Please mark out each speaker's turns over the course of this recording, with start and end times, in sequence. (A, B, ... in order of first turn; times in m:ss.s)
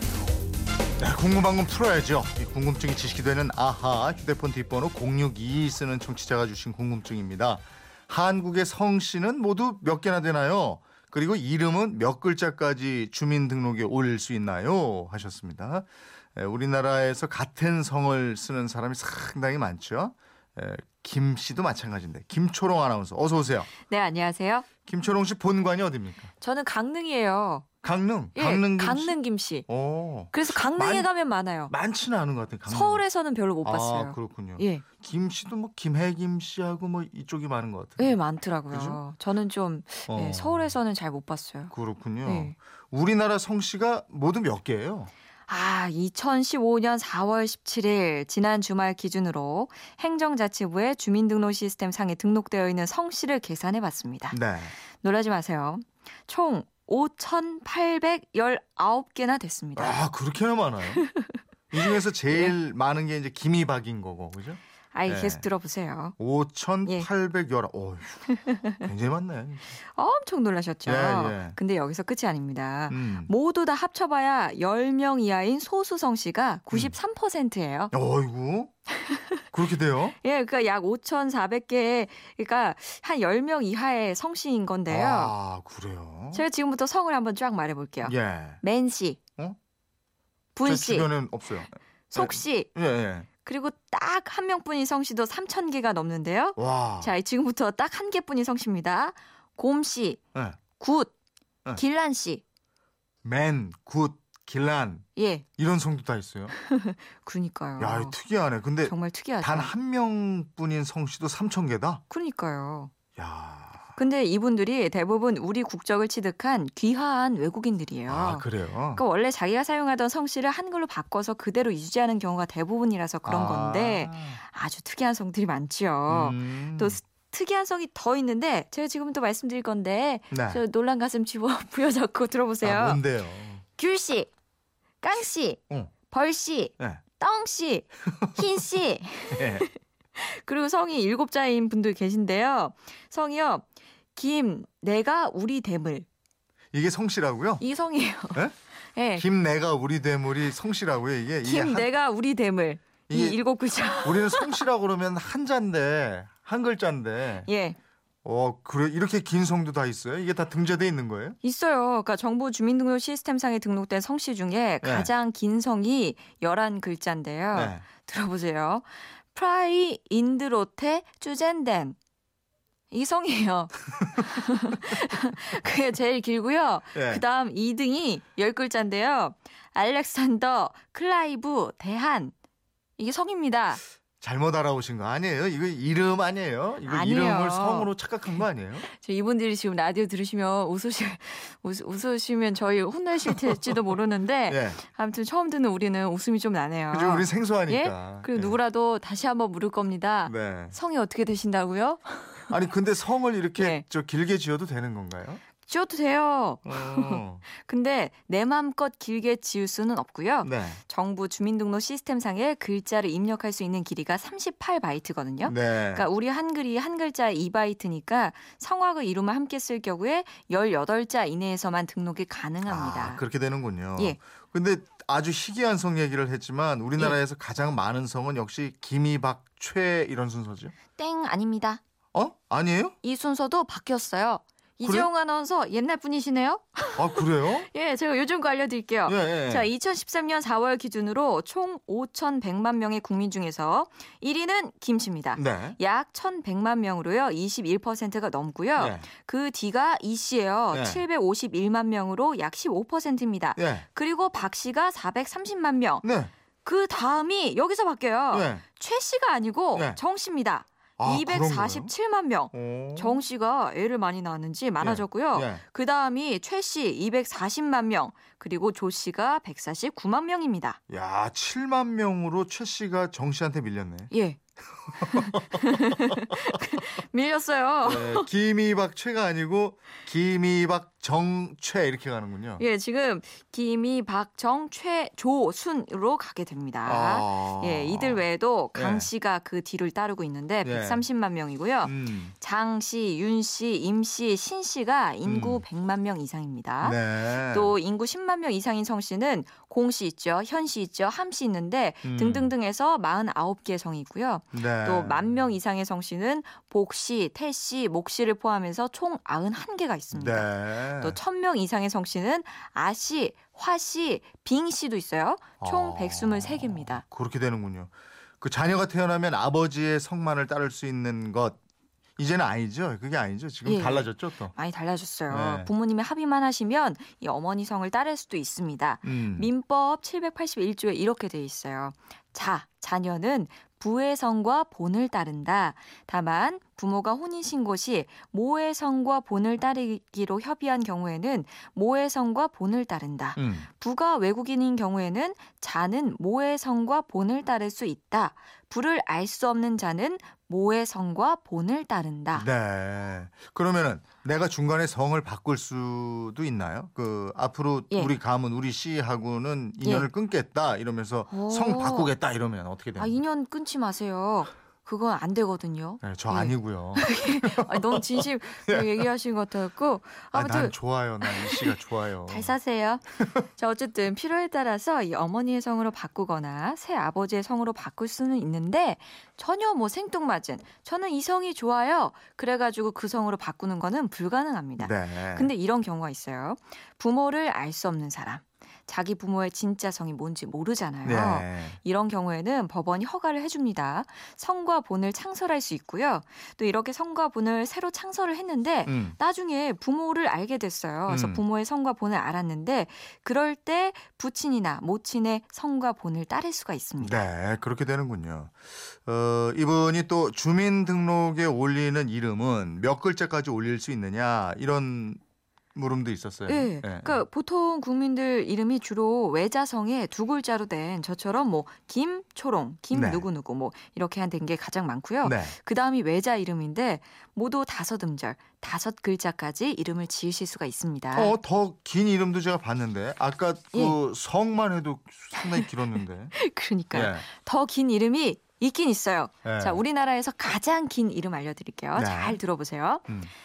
0:01.0-0:23.7 A
0:23.8-0:24.7 B
0:24.9-0:26.3 A
0:26.4-0:27.7 B
0:27.8-0:29.2 A
0:28.3-0:29.7 B
0:29.7-0:31.1 A
0:30.3-0:31.7 B
0:31.7-0:33.0 A
0:32.7-0:34.8 B
0:33.6-0:38.2 A
0:38.0-0:41.7 B
0:38.7-0:39.0 A
0:40.1-0:40.7 A
0:41.7-0:45.1 A
0:42.2-0:42.6 B
0:45.5-0:54.4 B
0:54.3-0:54.7 A
0:55.0-1:00.0 B
0:59.8-1:01.0 A
1:00.9-1:02.6 B
1:01.7-1:05.5 A
1:04.9-1:06.1 B
1:06.2-1:09.7 A
1:08.3-1:08.8 B
1:09.8-1:17.9 B
1:10.8-1:11.6 A
1:12.9-1:13.3 A
1:17.9-1:18.7 A
1:18.9-1:19.4 B
1:19.5-1:20.2 A
1:20.2-1:25.3 B
1:24.9-1:26.4 A
1:26.3-1:29.2 B
1:28.0-1:28.6 A
1:30.6-1:31.1 B
1:30.6-1:33.3 A
1:32.1-1:32.7 B
1:33.4-1:40.2 B
1:36.6-1:37.1 A
1:40.8-1:41.1 B
1:41.7-1:42.4 B
1:43.2-1:45.0 A
1:45.2-1:45.4 B
1:45.6-1:46.5 A
1:46.5-1:48.2 B
1:47.8-1:52.0 A
1:48.8-1:49.7 B
1:52.1-1:52.9 B
1:53.2-1:54.0 A
1:54.0-2:13.0 B
1:58.1-1:59.0 A
2:03.2-2:04.4 A
2:06.1-2:07.0 A
2:10.3-2:10.6 A
2:12.6-2:13.6 A
2:13.7-2:14.3 B
2:15.0-2:26.1 B
2:19.3-2:19.7 A
2:26.7-2:27.6 A
2:27.6-2:29.2 B
2:29.2-2:31.9 A
2:31.4-2:34.6 B
2:33.1-2:33.4 A
2:33.9-2:37.5 A
2:37.5-2:37.8 B
2:38.2-2:41.4 A
2:41.4-2:52.0 B
2:44.8-2:45.1 A
2:47.5-2:47.8 A
2:52.9-3:02.3 B
2:56.9-2:57.2 A
3:03.0-3:03.8 B
3:04.2-3:08.9 A
3:06.8-3:07.9 B
3:08.8-3:22.5 B
3:13.3-3:13.7 A
3:14.5-3:14.8 A
3:16.9-3:18.6 A
3:20.3-3:20.8 A
3:22.5-3:25.4 A
3:23.6-3:23.8 B
3:25.6-3:43.2 B
3:26.6-3:27.4 A
3:30.4-3:30.8 A
3:35.4-3:36.1 A
3:42.7-3:50.7 A
3:51.0-3:51.8 B
3:52.1-3:53.0 A
3:53.0-4:16.0 B
3:54.8-3:55.1 A
3:57.0-3:57.7 A
3:59.1-3:59.7 A
4:05.4-4:05.8 A
4:08.8-4:09.1 A
4:10.7-4:11.0 A
4:13.6-4:13.9 A
4:16.0-4:16.3 A
4:16.6-4:30.8 B
4:18.3-4:18.6 A
4:19.8-4:20.0 A
4:21.0-4:21.9 A
4:22.5-4:23.2 A
4:24.8-4:25.6 A
4:30.9-4:34.1 A
4:34.1-4:34.4 B
4:35.0-4:38.3 B
4:35.0-4:36.2 A
4:37.8-4:42.6 A
4:42.6-5:17.0 B
4:46.8-4:49.1 A
4:50.6-4:51.0 A
4:51.8-4:52.3 A
4:55.2-4:55.6 A
4:56.8-4:57.7 A
5:02.0-5:02.5 A
5:04.5-5:05.3 A
5:10.1-5:11.2 A
5:15.6-5:21.6 A
5:22.2-5:24.5 A
5:23.6-5:52.5 B
5:25.3-5:25.7 A
5:29.0-5:29.5 A
5:43.4-5:43.7 A
5:52.3-6:03.2 A
5:59.8-6:00.1 B
6:01.3-6:02.1 B
6:03.0-6:47.2 B
6:06.0-6:09.1 A
6:10.3-6:12.6 A
6:24.8-6:25.5 A
6:31.0-6:31.8 A
6:38.9-6:39.2 A
6:41.1-6:41.4 A
6:47.0-6:55.2 A
6:55.8-6:57.2 A
6:56.5-7:11.4 B
7:02.9-7:03.2 A
7:05.2-7:05.6 A
7:11.1-7:16.4 A
7:13.7-7:14.0 B
7:15.4-7:15.7 B
7:16.3-7:23.1 B
7:16.9-7:17.2 A
7:19.4-7:19.8 A
7:21.9-7:22.4 A